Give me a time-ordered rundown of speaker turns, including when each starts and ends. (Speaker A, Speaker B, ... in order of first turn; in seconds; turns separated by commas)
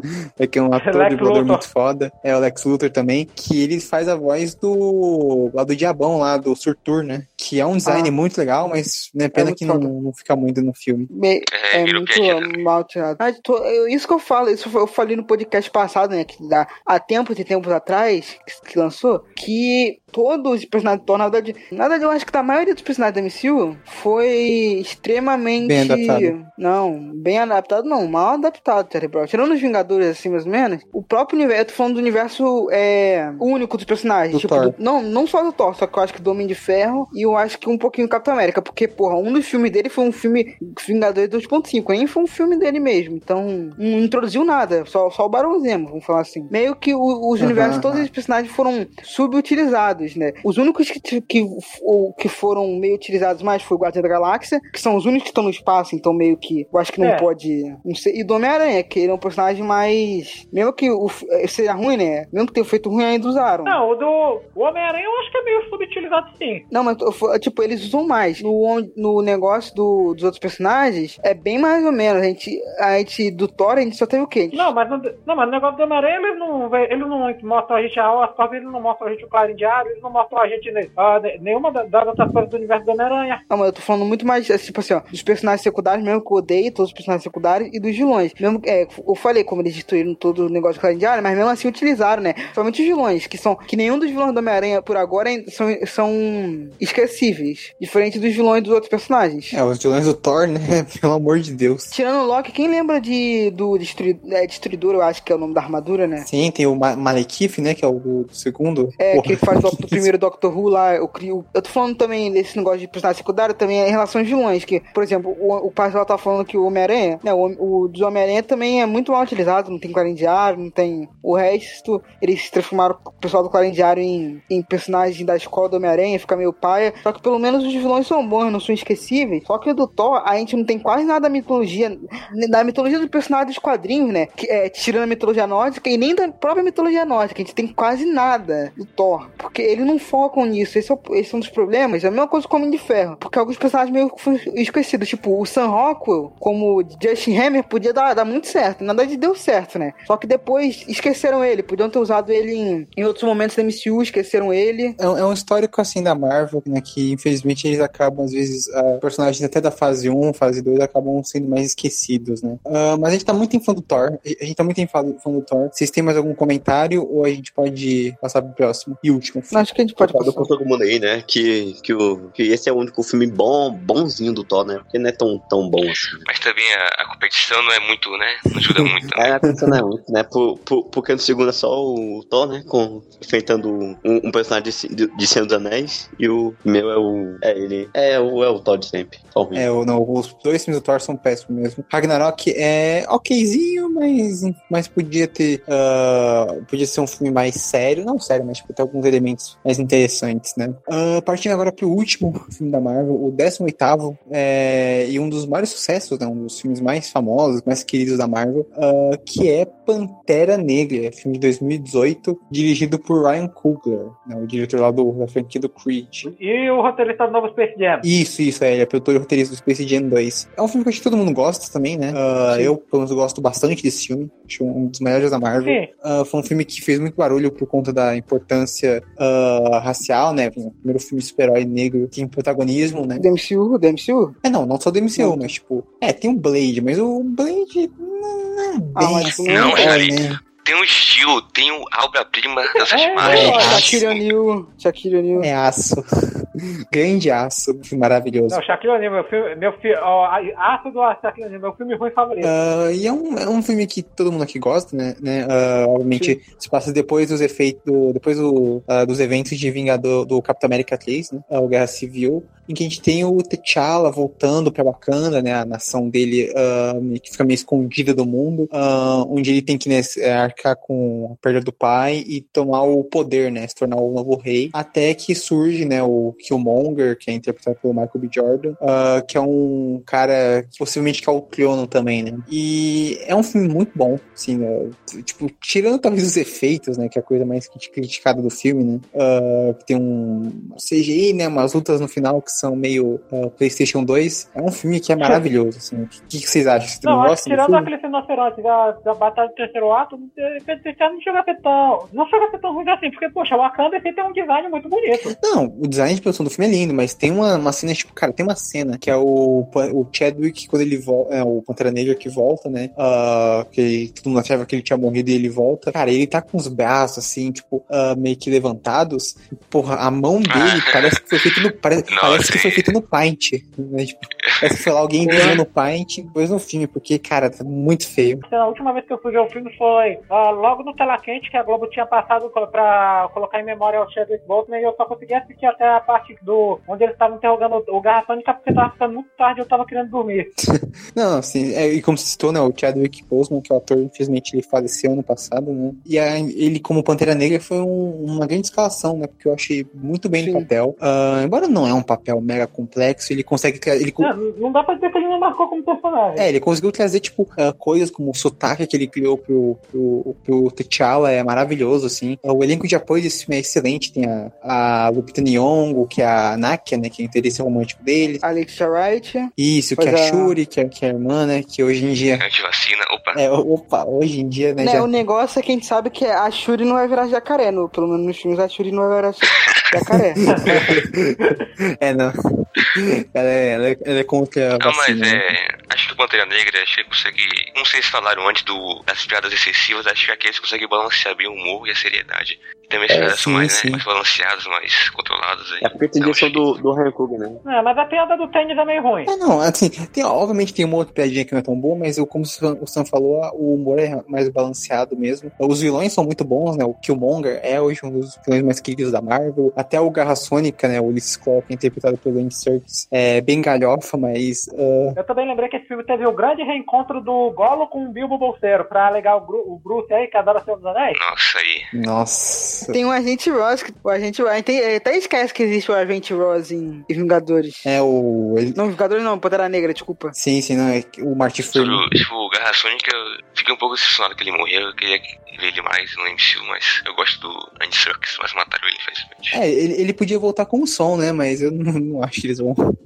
Speaker A: 0.4-11.1, Speaker B: 0.8-1.6, Speaker C: 7.8-8.1, Speaker C: 9.3-9.9, Speaker C: 11.1-63.8, Speaker D: 11.5-12.6, Speaker A: 25.6-26.3, Speaker A: 34.3-34.8, Speaker A: 47.4-48.1, Speaker B: 57.0-57.3, Speaker B: 63.6-66.6, Speaker C: 66.7-74.7, Speaker B: 74.5-83.4, Speaker C: 83.5-99.6, Speaker A: 99.5-101.9, Speaker C: 101.9-106.3, Speaker A: 106.2-110.1, Speaker C: 109.0-155.0, Speaker A: 155.0-169.7, Speaker C: 169.5-170.5, Speaker E: 170.0-176.2, Speaker D: 176.2-179.4, Speaker E: 179.1-189.7, Speaker A: 189.5-216.3, Speaker B: 216.2-218.1, Speaker A: 218.0-233.2, Speaker C: 222.1-222.7, Speaker B: 225.6-225.9, Speaker C: 233.2-234.3, Speaker A: 234.4-240.4, Speaker C: 235.2-235.5, Speaker C: 238.9-240.1, Speaker D: 239.5-244.2, Speaker B: 242.7-243.8, Speaker A: 243.2-244.0, Speaker C: 243.2-245.5, Speaker A: 245.3-246.1, Speaker A: 246.9-248.6, Speaker B: 248.5-252.5, Speaker A: 252.4-297.9, Speaker C: 256.1-256.4, Speaker B: 297.0-305.3, Speaker A: 305.1-328.4, Speaker D: 320.5-322.9, Speaker D: 324.4-324.9, Speaker C: 325.2-325.6, Speaker B: 328.5-340.5, Speaker A: 340.6-354.3, Speaker C: 350.4-350.7, Speaker B: 354.2-356.5, Speaker A: 356.4-368.4, Speaker C: 368.4-370.5, Speaker A: 369.6-372.4, Speaker D: 372.4-373.4, Speaker A: 373.3-375.1, Speaker C: 374.8-380.4, Speaker D: 379.5-379.8, Speaker A: 380.4-385.4, Speaker B: 380.5-381.0, Speaker D: 384.8-396.6, Speaker E: 393.1-393.4, Speaker A: 393.3-394.0, Speaker E: 395.8-397.6, Speaker B: 397.6-399.3, Speaker A: 399.2-415.2, Speaker B: 415.2-421.2, Speaker D: 421.1-421.9, Speaker A: 421.9-422.9, Speaker C: 422.9-427.9, Speaker A: 427.8-428.8, Speaker C: 428.8-430.3, Speaker A: 430.3-432.0, Speaker D: 431.7-439.6, Speaker A: 439.5-442.8